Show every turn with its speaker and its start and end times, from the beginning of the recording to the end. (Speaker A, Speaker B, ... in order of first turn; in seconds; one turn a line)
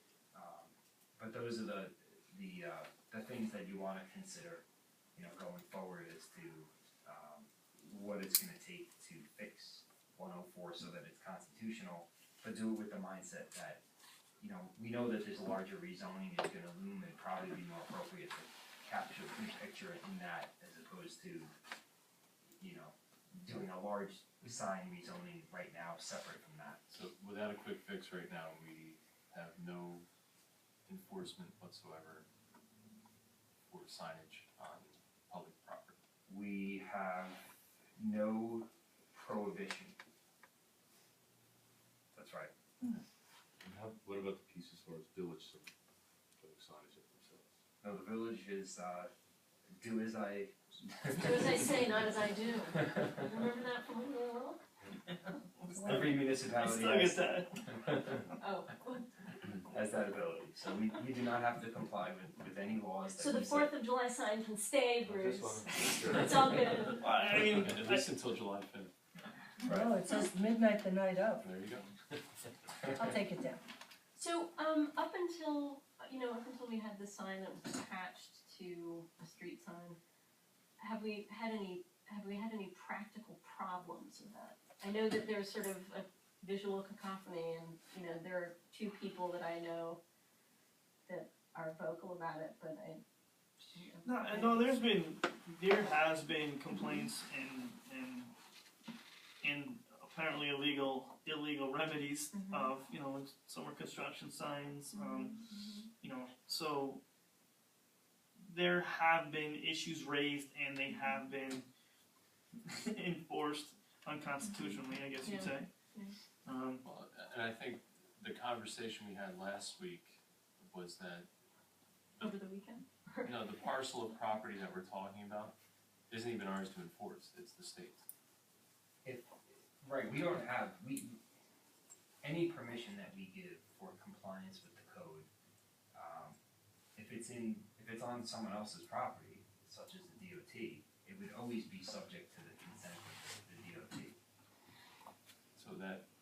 Speaker A: 0.3-4.6
Speaker A: 5.2-13.8
Speaker A: 14.4-21.5
Speaker A: 22.6-26.8
Speaker B: 26.9-30.1
Speaker B: 30.9-32.3
Speaker B: 33.7-36.0
Speaker A: 36.3-40.0
Speaker A: 42.1-42.5
Speaker C: 43.6-45.7
Speaker C: 46.4-47.5
Speaker A: 47.8-49.1
Speaker A: 49.8-51.8
Speaker D: 51.1-54.6
Speaker E: 55.7-56.1
Speaker A: 55.7-58.2
Speaker F: 55.8-58.3
Speaker D: 58.4-59.1
Speaker A: 59.7-63.7
Speaker D: 63.1-67.1
Speaker C: 65.1-66.9
Speaker F: 67.0-68.1
Speaker B: 67.3-68.9
Speaker A: 69.6-70.0
Speaker E: 69.7-71.4
Speaker B: 71.4-72.2
Speaker E: 73.0-73.6
Speaker D: 74.2-80.0
Speaker D: 80.8-90.0
Speaker D: 91.1-93.0
Speaker D: 93.6-94.7
Speaker F: 94.0-98.3
Speaker F: 99.4-105.4
Speaker D: 102.3-102.8
Speaker D: 104.9-105.9
Speaker F: 106.0-107.0
Speaker F: 108.4-111.7
Speaker D: 110.9-111.2
Speaker F: 112.6-115.7
Speaker D: 114.4-116.2
Speaker F: 116.4-116.8
Speaker B: 116.8-121.3
Speaker D: 122.2-123.7
Speaker B: 123.2-125.5
Speaker B: 126.1-128.0
Speaker A: 129.1-131.2
Speaker A: 132.2-135.3
Speaker A: 135.9-136.4
Speaker A: 137.0-144.2
Speaker B: 145.6-146.1